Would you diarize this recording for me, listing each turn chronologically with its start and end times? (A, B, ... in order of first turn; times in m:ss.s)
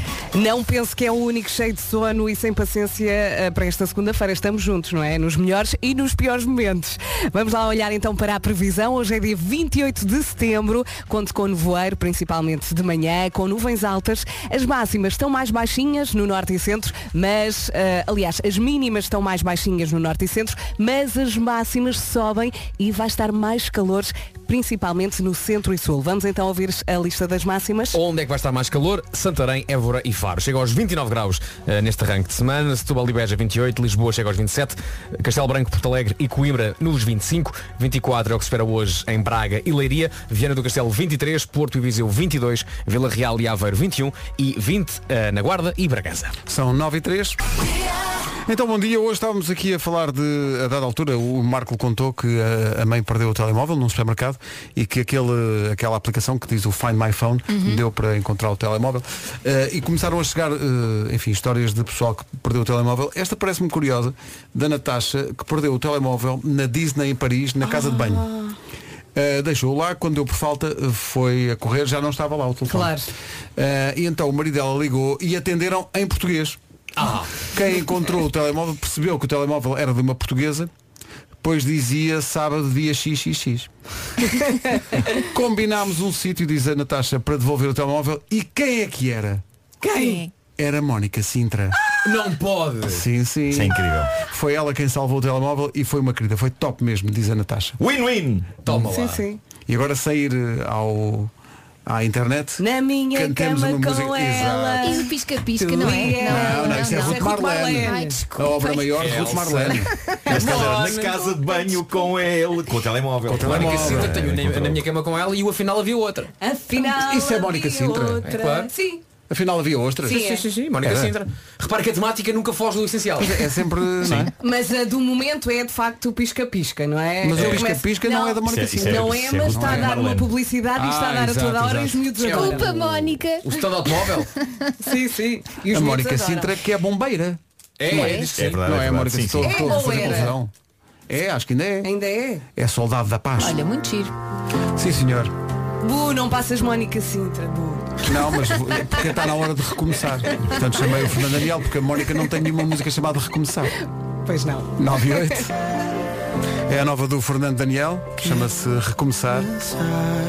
0:00.3-0:28.0 A
0:27.9-0:46.4 B
0:46.5-0:47.4 C
0:48.5-1:08.3 C
0:57.5-0:57.8 D
1:07.7-1:08.5 A
1:09.2-1:13.0 C
1:12.7-1:13.1 A
1:13.6-1:16.6 C
1:17.0-1:17.3 B
1:17.4-1:20.7 C
1:21.4-1:23.7 C
1:25.1-1:29.4 C
1:29.8-1:30.3 A
1:29.9-1:30.3 D
1:30.6-1:31.8 C
1:32.0-1:33.1 B
1:32.8-1:37.8 C
1:33.5-1:34.1 E
1:37.8-1:38.6 E
1:38.6-1:39.2 B
1:38.7-1:39.4 A
1:39.7-1:41.3 C
1:41.9-1:45.0 C
1:42.6-1:48.2 A
1:44.8-1:48.9 D
1:45.9-1:50.0 C
1:49.0-1:51.1 B
1:50.3-1:54.8 E
1:50.4-1:51.0 A
1:53.3-1:54.7 C
1:53.4-1:56.3 B
1:56.4-1:59.0 A
1:56.8-1:58.3 C
1:58.2-1:58.7 B
1:59.3-2:00.2 C
2:00.0-2:00.4 A
2:00.1-2:03.4 B
2:00.8-2:01.2 C
2:03.2-2:04.3 C
2:04.4-2:12.7 A
2:07.2-2:09.9 C
2:08.4-2:10.3 E
2:10.8-2:12.8 C
2:12.2-2:13.5 D
2:13.4-2:14.3 B
2:14.8-2:16.5 A
2:15.7-2:20.5 C
2:17.8-2:18.6 B
2:18.3-2:20.0 E
2:19.4-2:20.4 A
2:21.1-2:21.9 C
2:21.8-2:22.4 A
2:22.6-2:23.6 C
2:23.4-2:24.1 D
2:24.8-2:25.3 C
2:25.8-2:28.0 A
2:28.0-2:33.8 C
2:34.3-2:34.8 A
2:34.8-2:35.5 C
2:36.7-2:39.8 C